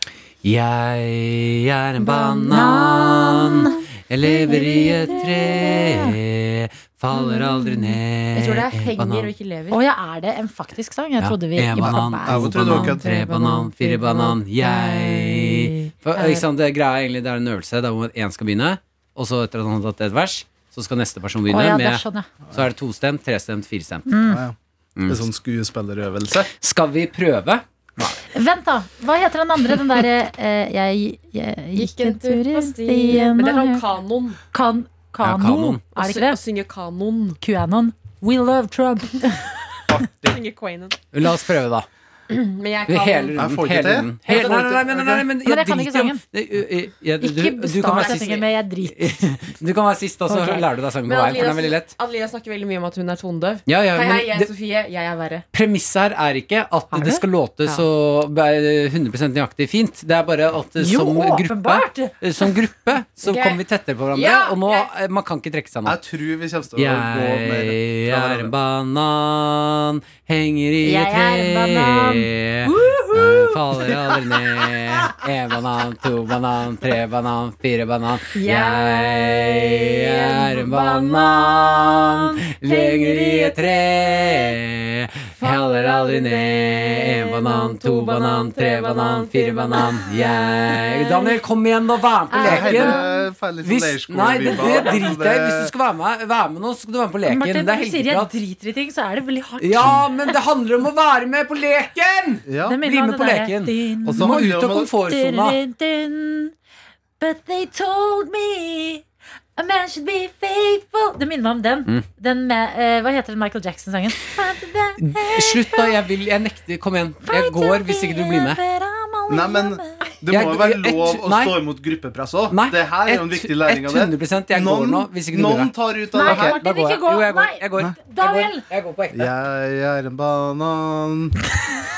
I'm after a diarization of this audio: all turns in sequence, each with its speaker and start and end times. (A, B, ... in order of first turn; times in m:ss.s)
0:00.4-0:09.3 A
0:02.0-0:06.2 B
0:08.3-0:09.8 C
0:09.7-0:14.3 B
0:11.2-0:24.1 A
0:11.8-0:13.0 D
0:13.3-0:15.4 C
0:15.1-0:15.7 B
0:16.2-0:16.4 C
0:21.5-0:22.3 B
0:24.1-0:24.4 B
0:24.2-0:26.5 D
0:25.0-0:25.2 A
0:26.5-0:28.2 A
0:28.3-0:33.8 B
0:31.8-0:34.4 C
0:34.5-0:36.4 B
0:35.2-0:35.8 A
0:35.9-0:37.4 C
0:37.4-0:39.8 B
0:39.9-0:40.4 D
0:40.3-0:41.0 C
0:41.1-0:41.9 A
0:42.3-0:43.4 C
0:42.9-0:51.9 A
0:43.3-0:45.3 D
0:44.3-0:44.6 B
0:45.4-0:46.2 B
0:47.2-0:49.2 B
0:48.0-0:48.4 C
0:50.3-0:50.7 B
0:51.0-0:55.4 C
0:53.7-0:54.5 A
0:55.5-1:06.0 A
0:56.9-0:57.2 B
1:00.8-1:02.1 B
1:03.2-1:03.6 C
1:04.1-1:04.9 C
1:05.8-1:08.5 D
1:06.8-1:33.0 A
1:10.8-1:12.3 B
1:12.6-1:15.1 C
1:18.3-1:24.5 C
1:25.4-1:31.4 C
1:32.3-1:33.2 B
1:32.4-1:35.7 D
1:33.6-1:38.3 A
1:37.3-1:40.3 B
1:39.6-1:45.6 A
1:42.4-1:42.8 D
1:42.6-1:44.3 B
1:44.0-1:44.9 D
1:45.0-1:46.5 B
1:47.2-1:49.0 B
1:49.6-1:55.9 B
1:55.0-1:58.6 A
1:57.2-2:00.0 B
1:59.3-2:06.6 D
2:00.3-2:01.5 A
2:02.5-2:09.3 A
2:06.1-2:08.7 B
2:09.1-2:11.4 D